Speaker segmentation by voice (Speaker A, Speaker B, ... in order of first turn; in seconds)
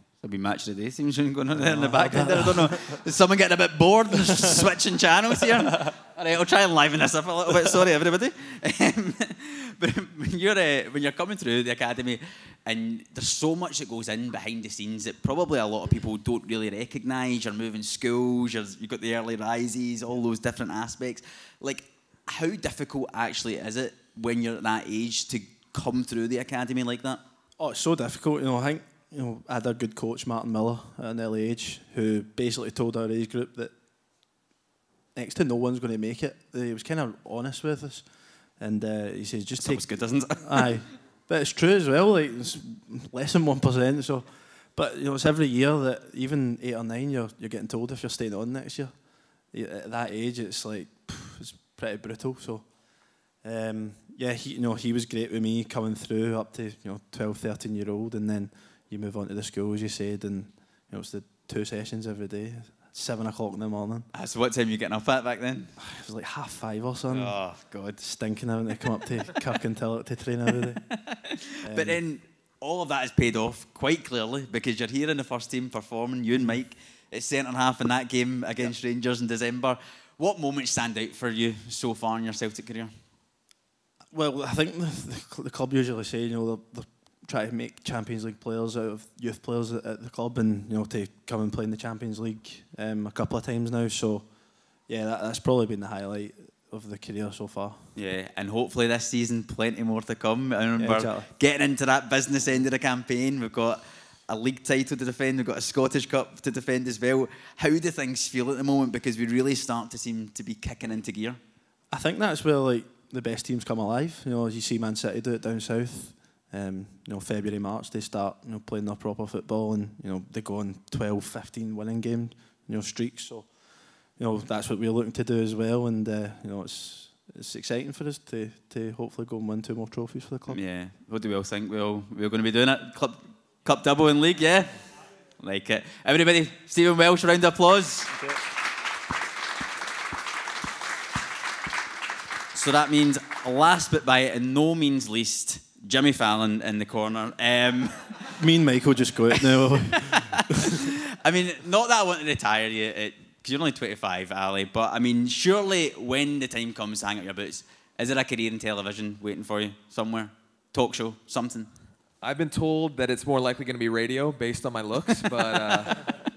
Speaker A: 0.2-27.2, 39.6-40.8, 64.1-65.8, 67.1-68.0, 70.9-82.9, 98.0-111.4, 130.5-134.8, 135.4-138.1, 142.5-148.4, 149.9-161.7
Speaker B: 1.5-3.0, 4.3-4.6, 27.6-33.7, 35.1-38.0, 38.6-48.9, 49.5-52.7, 53.4-64.1, 65.8-67.4, 68.0-70.9, 71.6-72.0, 84.1-94.3, 94.9-97.9, 100.8-101.3, 111.9-123.5, 124.1-130.6, 148.4-150.8
Speaker C: 162.2-166.2